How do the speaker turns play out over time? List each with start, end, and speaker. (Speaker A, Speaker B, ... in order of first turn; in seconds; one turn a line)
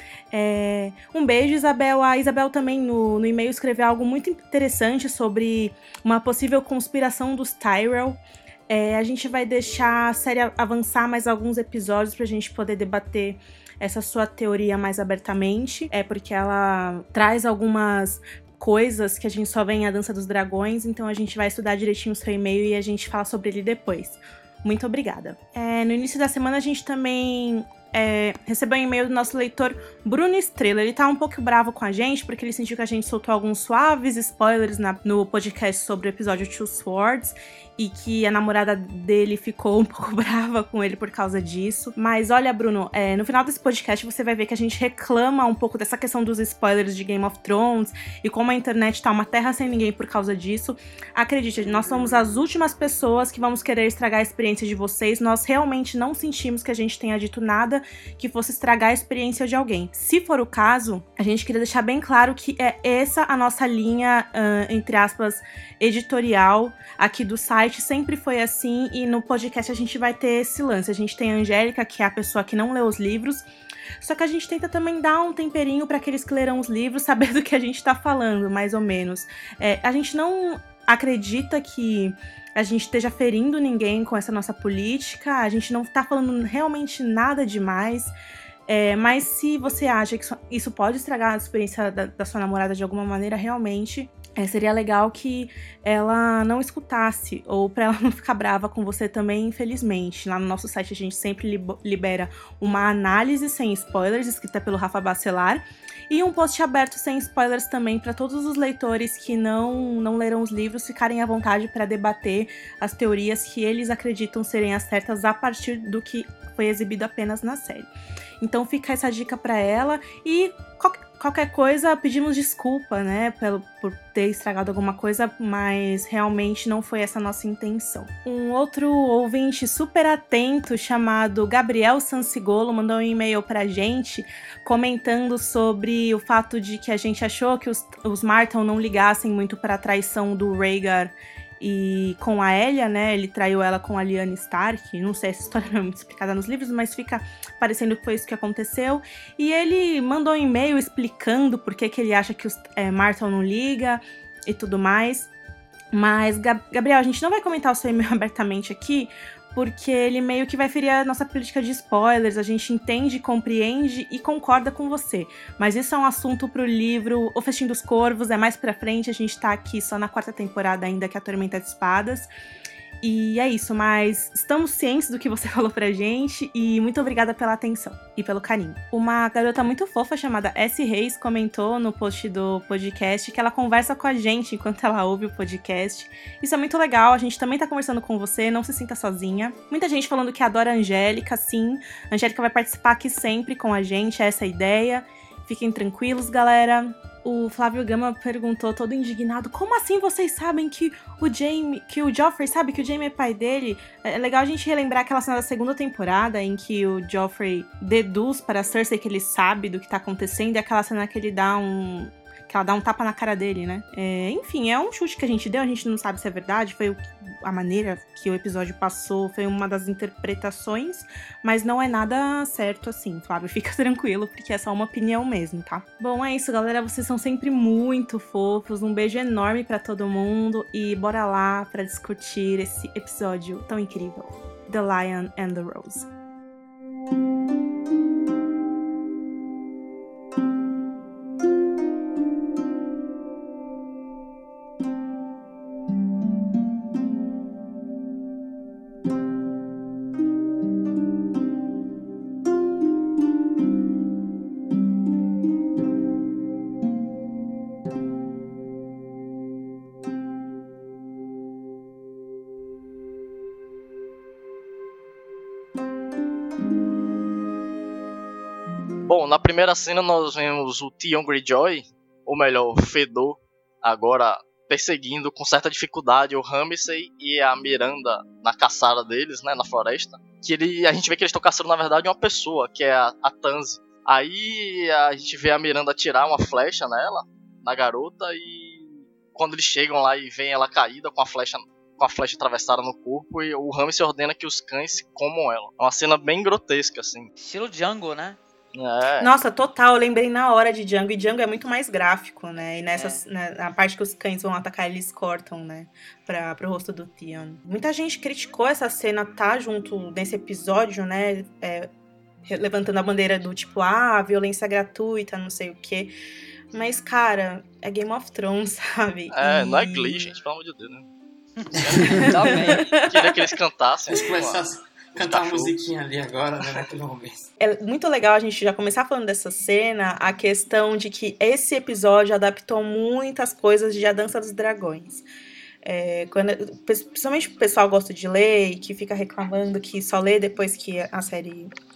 Speaker A: 0.3-73.5
Speaker A: 74.0-88.1
Speaker A: 88.7-117.9
Speaker A: 118.4-155.3
Speaker A: 155.9-172.3
Speaker A: 173.0-236.1
Speaker B: 269.1-297.3
Speaker C: 297.4-298.4
Speaker B: 298.7-299.3
Speaker A: 299.2-311.9
Speaker C: 302.9-303.2
Speaker A: 312.5-316.1
Speaker A: 316.7-320.3
Speaker B: 319.3-321.1
Speaker C: 321.7-322.9
Speaker B: 321.9-324.6
Speaker A: 322.1-323.4
Speaker D: 324.1-327.4
Speaker B: 325.1-325.9
Speaker A: 327.6-335.2
Speaker A: 335.8-341.7